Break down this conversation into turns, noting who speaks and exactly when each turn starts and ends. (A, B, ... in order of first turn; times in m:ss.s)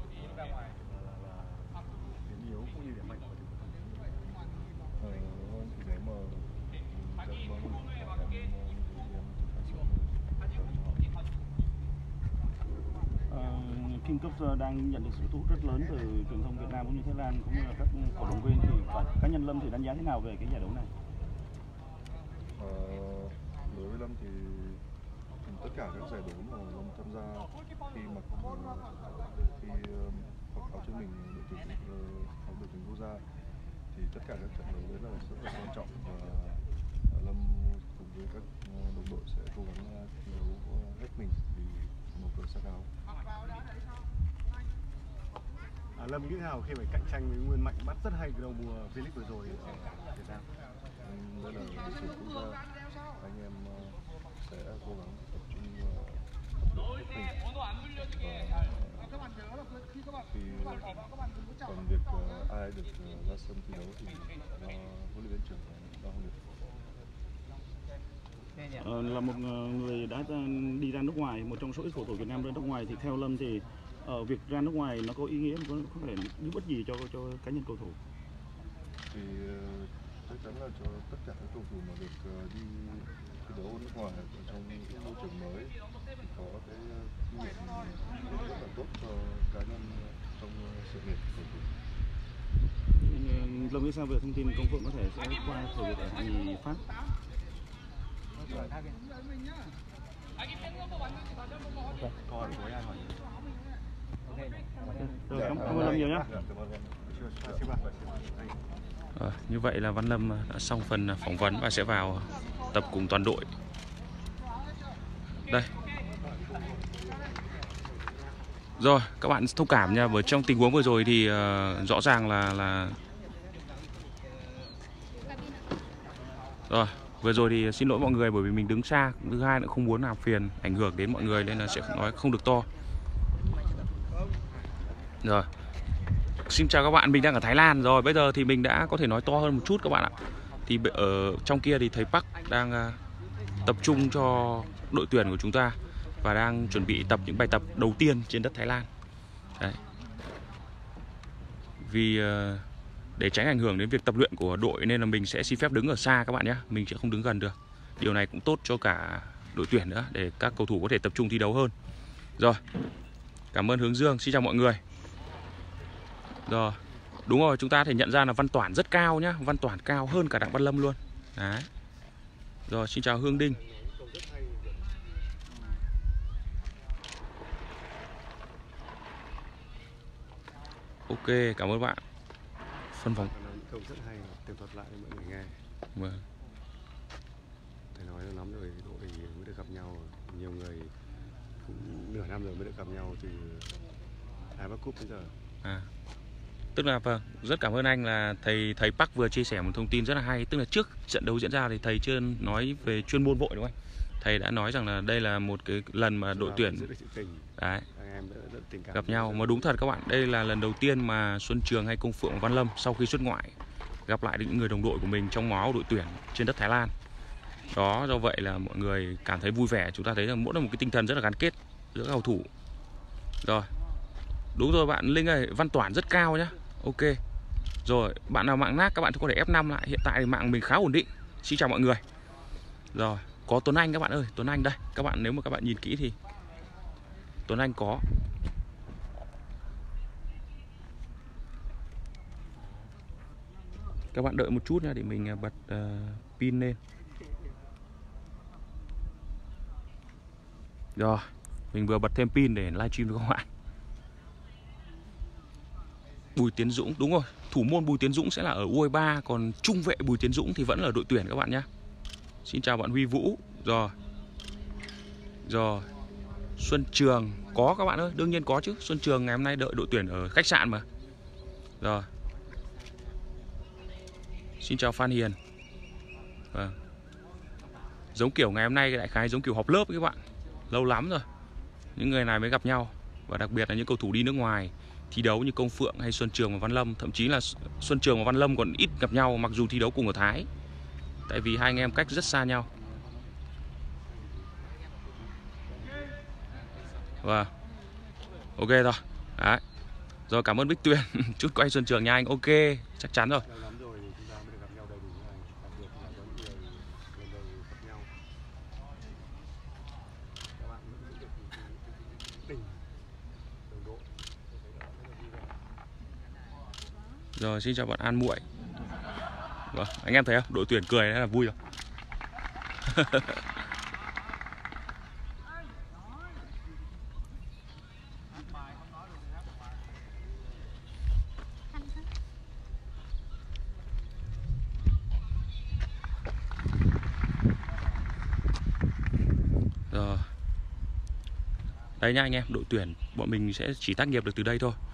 0:00.2-0:04.4 A
0:05.0-0:11.1 B
0:13.3-0:20.9 C
0:22.5-0:24.8 B
0:25.4-0:33.2 B
0:33.9-0:42.9 B
0:46.0-0:50.5 A
0:51.0-0:57.4 B
0:58.1-0:59.2 B
1:00.3-1:06.4 B
1:08.7-1:18.0 C
1:19.1-1:25.8 B
1:26.3-1:31.7 B
1:33.0-1:36.8 C
1:38.5-1:38.7 B
1:42.2-1:43.2 A
1:44.8-1:47.8 B
1:45.2-1:46.3 C
1:45.5-1:46.3 A
1:47.1-1:48.6 A
1:49.2-1:53.5 D
1:56.3-1:56.8 A
1:58.8-2:03.0 D
2:06.7-2:12.7 D
2:15.2-2:15.5 D
2:16.4-2:23.0 D
2:23.6-2:28.9 D
2:31.8-2:32.6 D
2:33.2-2:41.7 D
2:43.5-2:44.8 D
2:46.5-2:51.7 D
2:52.7-2:53.6 D
2:53.3-2:54.9 A
3:01.1-3:02.0 D
3:02.9-3:03.3 D
3:03.1-3:05.6 A
3:05.9-3:06.2 D
3:07.9-3:10.9 A
3:11.6-3:13.8 A
3:14.5-3:15.3 A
3:16.7-3:26.9 D
3:26.3-3:29.7 A
3:27.6-3:27.8 D
3:28.9-3:33.5 D
3:34.1-3:36.9 D
3:37.7-3:42.5 D
3:43.4-3:43.7 D
3:44.5-3:47.2 D
3:47.8-3:52.0 D
3:52.9-3:56.2 D
3:57.5-3:58.0 D
4:04.1-4:06.8 D
4:11.0-4:13.4 D
4:16.3-4:21.7 D
4:22.4-4:23.9 D
4:25.4-4:25.9 D
4:26.6-4:30.8 D
4:31.8-4:32.1 D
4:34.6-4:35.4 D
4:38.1-4:41.3 D
4:42.0-4:50.5 D
4:51.3-4:52.7 D
4:57.2-4:57.5 D
4:58.6-4:59.6 D
5:00.3-5:03.4 D
5:03.4-5:08.1 A
5:10.5-5:12.8 A
5:13.7-5:15.4 A
5:17.4-5:18.4 D
5:19.7-5:21.6 D
5:22.9-5:23.4 D
5:39.9-5:40.3 D
5:42.0-5:44.8 D